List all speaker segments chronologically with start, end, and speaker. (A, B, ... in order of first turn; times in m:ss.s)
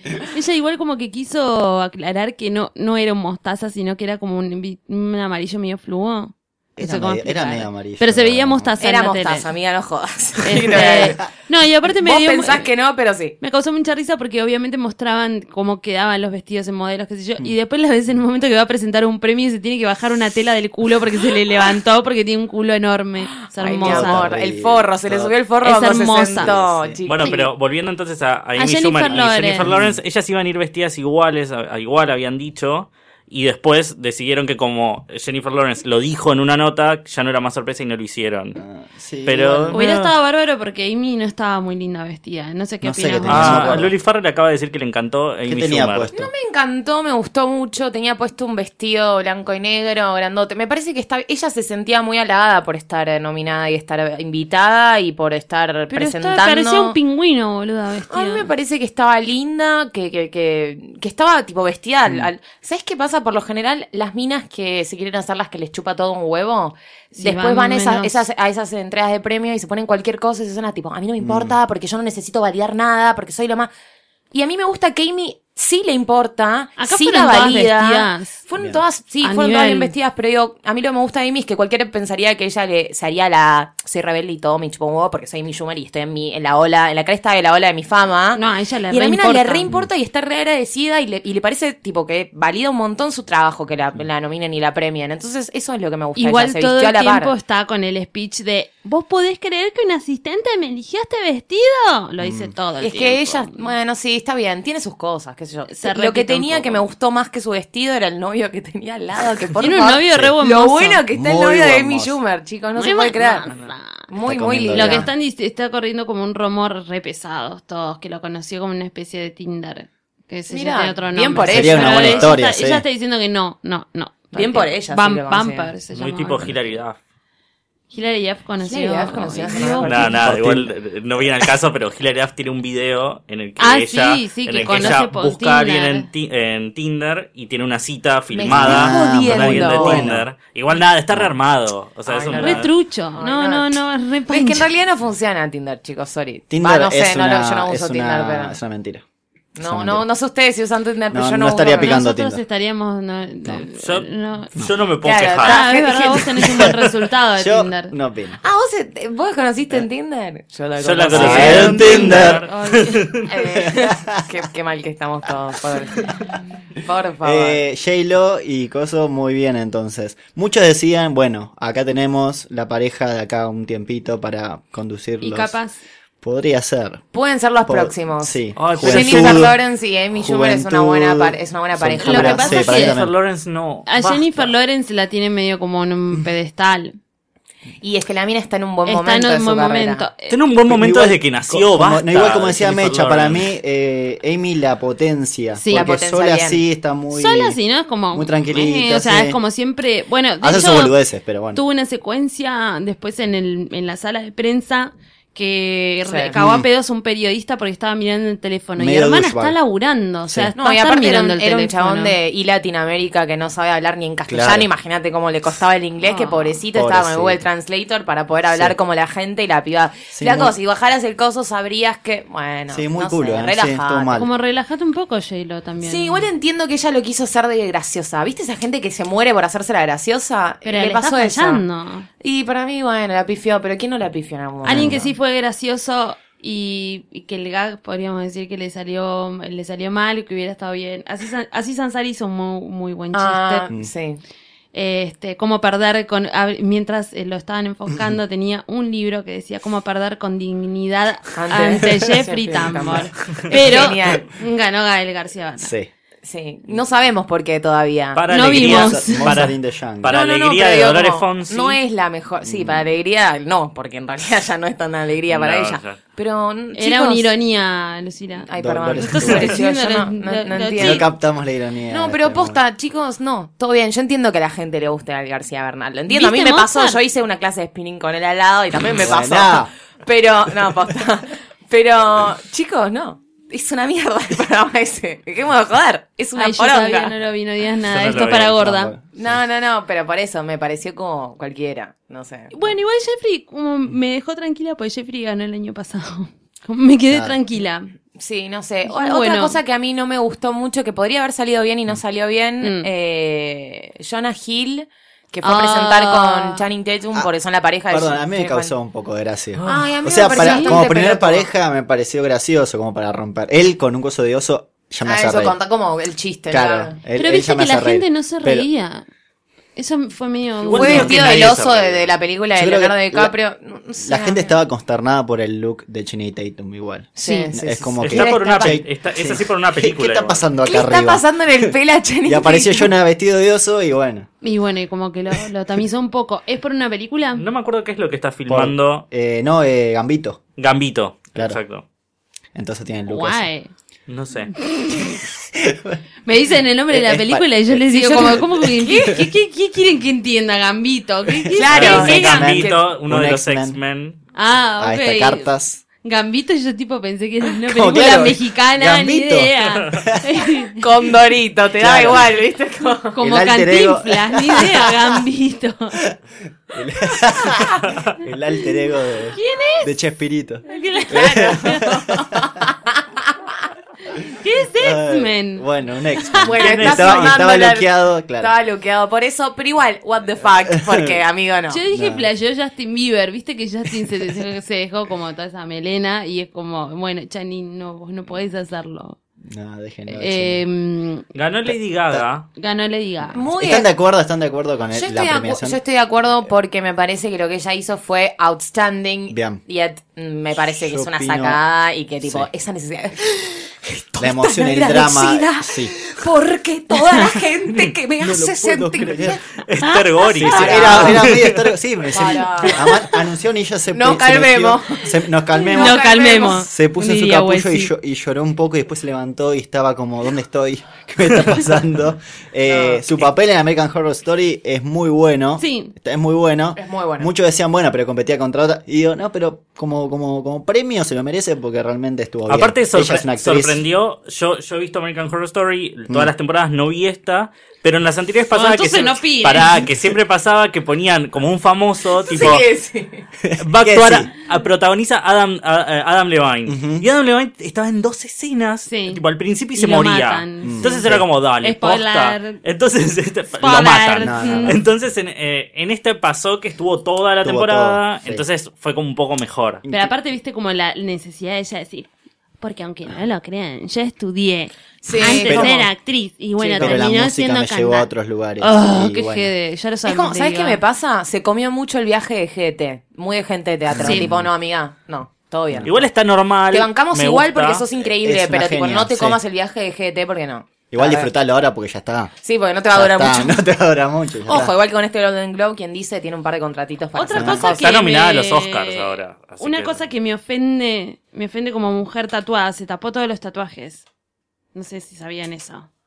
0:00.3-0:09.5 A
0:06.8-0:08.7 B
0:08.8-0:11.3 C
0:10.4-0:12.7 A
0:10.8-0:11.0 B
0:12.0-0:13.4 C
0:13.4-0:24.2 A
0:23.5-0:27.5 C
0:23.8-0:25.3 B
0:25.6-0:26.5 A
0:26.4-0:27.0 B
0:27.1-0:38.6 D
0:28.6-0:29.7 A
0:29.6-0:30.0 B
0:38.6-0:39.8 B
0:39.2-0:40.1 D
0:39.7-0:43.9 A
0:42.8-0:43.9 B
0:43.3-0:46.1 D
0:45.5-0:46.3 B
0:46.1-0:57.0 C
0:55.9-0:58.5 A
0:58.1-1:13.7 C
1:07.2-1:08.2 A
1:11.2-1:11.6 B
1:14.3-1:37.3 C
1:16.8-1:18.4 A
1:18.6-1:18.8 B
1:19.2-1:19.9 A
1:28.4-1:29.7 A
1:36.2-1:43.7 A
1:42.2-1:42.5 B
1:42.8-1:53.5 C
1:45.7-1:46.8 A
1:49.6-1:51.0 A
1:51.1-1:52.2 B
1:52.8-1:54.1 A
1:54.1-1:55.1 C
1:54.2-1:55.1 B
1:54.7-2:06.8 A
2:00.5-2:02.3 C
2:01.5-2:02.8 B
2:04.3-2:05.7 C
2:05.9-2:07.0 D
2:07.9-2:10.2 A
2:08.6-2:10.1 C
2:09.8-2:22.7 D
2:10.0-2:10.7 B
2:13.6-2:16.1 A
2:18.3-2:20.1 C
2:18.5-2:20.3 B
2:22.1-2:23.8 C
2:22.4-2:24.7 A
2:24.3-2:28.6 C
2:26.5-2:29.0 B
2:29.6-2:32.0 C
2:29.6-2:30.1 B
2:31.1-2:32.4 B
2:31.8-2:34.5 A
2:33.8-2:35.7 D
2:35.0-2:36.4 C
2:35.4-2:37.9 A
2:36.4-2:36.8 D
2:37.4-2:38.4 B
2:38.4-2:42.3 C
2:40.8-2:43.3 D
2:41.1-2:42.4 B
2:41.3-2:43.1 A
2:43.3-2:47.6 C
2:43.6-2:44.2 B
2:47.2-2:55.6 B
2:55.2-2:55.8 A
2:56.2-2:57.0 B
2:57.1-3:02.7 C
2:57.6-2:59.6 B
2:58.6-2:59.5 D
3:00.1-3:03.1 B
3:02.0-3:03.0 A
3:02.7-3:04.5 D
3:03.9-3:07.0 A
3:07.8-3:10.1 C
3:08.9-3:10.3 A
3:10.3-3:13.5 D
3:10.7-3:17.6 B
3:15.5-3:15.9 A
3:15.7-3:16.6 C
3:17.1-3:21.0 A
3:18.1-3:19.4 B
3:20.4-3:21.6 B
3:21.5-3:32.2 A
3:26.0-3:26.3 C
3:26.3-3:26.7 B
3:28.8-3:29.6 B
3:30.3-3:30.5 B
3:30.6-3:44.2 C
3:34.3-3:34.7 B
3:36.0-3:36.6 A
3:36.7-3:37.4 B
3:38.5-3:38.8 B
3:40.1-3:40.6 B
3:42.7-3:44.3 B
3:44.2-3:46.2 A
3:45.8-3:51.6 C
3:50.6-3:52.1 A
3:52.2-3:55.0 C
3:54.6-3:55.1 B
3:54.6-4:03.7 A
4:03.1-4:04.2 C
4:04.7-4:15.7 A
4:11.4-4:14.3 C
4:15.6-4:15.9 B
4:16.2-4:18.2 C
4:18.2-4:21.8 D
4:18.3-4:19.4 A
4:18.5-4:20.2 B
4:20.1-4:27.3 C
4:22.4-4:22.9 B
4:25.3-4:26.0 D
4:26.8-4:28.5 A
4:28.4-4:31.1 C
4:28.6-4:29.6 B
4:29.0-4:31.1 A
4:30.8-4:32.6 B
4:31.9-4:47.1 C
4:36.1-4:37.0 A
4:38.9-4:39.7 B
4:46.4-4:48.9 A
4:47.9-4:48.5 D
4:48.2-4:49.3 B
4:49.2-4:52.5 C
4:52.5-4:57.9 A
4:57.1-4:57.4 B
4:58.2-5:08.7 C
4:58.9-4:59.6 A
5:02.6-5:02.9 A
5:05.4-5:06.6 A
5:07.9-5:15.6 B
5:09.7-5:11.5 C
5:10.3-5:10.8 A
5:15.0-5:17.0 C
5:16.5-5:18.7 B
5:17.2-5:19.1 A
5:19.8-5:21.2 A
5:20.6-5:22.1 D
5:20.7-5:24.5 C
5:20.9-5:21.6 B
5:22.6-5:23.4 B
5:24.0-5:34.3 B
5:27.2-5:28.8 C
5:27.2-5:27.6 A
5:28.0-5:30.5 D
5:30.6-5:32.9 C
5:34.4-5:37.4 A
5:37.4-5:39.0 D
5:38.5-5:40.4 B
5:40.6-5:41.8 D
5:42.6-5:43.5 B
5:43.1-5:43.7 A
5:44.1-5:44.5 D
5:45.5-5:46.0 B
5:46.3-5:52.5 A
5:46.9-5:49.3 B
5:51.4-5:53.8 B
5:51.5-5:52.9 C
5:51.7-5:54.2 D
5:54.4-5:55.5 A
5:54.8-5:55.8 B
5:56.0-6:00.8 A
5:57.7-6:00.4 B
6:00.8-6:03.2 C
6:01.8-6:02.4 B
6:03.2-6:06.0 A
6:03.2-6:04.9 B
6:06.7-6:12.5 B
6:09.3-6:09.9 A
6:10.7-6:11.8 A
6:11.0-6:13.3 C
6:14.4-6:16.6 A
6:14.8-6:18.5 B
6:16.4-6:21.8 C
6:16.6-6:17.4 D
6:21.7-6:29.2 A
6:21.9-6:22.3 B
6:29.4-6:30.6 B
6:30.1-6:31.3 A
6:31.3-6:32.5 D
6:31.7-6:32.3 B
6:32.6-6:33.4 A
6:33.3-6:33.9 C
6:33.5-6:35.8 B
6:34.9-6:49.6 C
6:39.3-6:39.6 B
6:40.8-6:41.6 B
6:42.2-6:42.5 B
6:44.2-6:46.0 B
6:48.2-6:49.4 B
6:49.6-6:51.8 D
6:50.4-7:13.8 B
6:50.4-6:51.3 C
6:52.1-6:53.1 C
6:53.9-6:56.7 C
6:55.7-6:57.9 A
7:02.7-7:03.3 C
7:05.6-7:05.9 A
7:06.8-7:07.3 C
7:12.5-7:22.7 D
7:18.5-7:19.9 A
7:22.3-7:23.3 C
7:23.4-7:24.3 B
7:23.6-7:39.8 D
7:26.7-7:27.1 B
7:28.9-7:29.2 A
7:29.8-7:31.1 A
7:30.6-7:31.3 B
7:31.6-7:32.6 A
7:33.6-7:34.8 A
7:34.2-7:34.8 B
7:37.4-7:38.4 B
7:39.8-7:40.1 B
7:39.9-7:42.1 A
7:42.6-7:50.8 A
7:45.0-7:45.9 C
7:45.2-7:45.8 B
7:46.6-7:47.0 C
7:46.8-7:49.5 B
7:50.0-7:56.0 C
7:53.9-7:54.5 B
7:54.0-7:54.3 A
7:55.9-7:57.8 D
7:56.7-8:01.3 C
7:58.2-7:59.4 B
8:00.9-8:02.3 B
8:02.4-8:03.6 C
8:02.9-8:04.7 B
8:04.5-8:07.8 C
8:07.1-8:14.0 A
8:07.3-8:07.6 B
8:07.6-8:10.0 D
8:14.7-8:15.9 A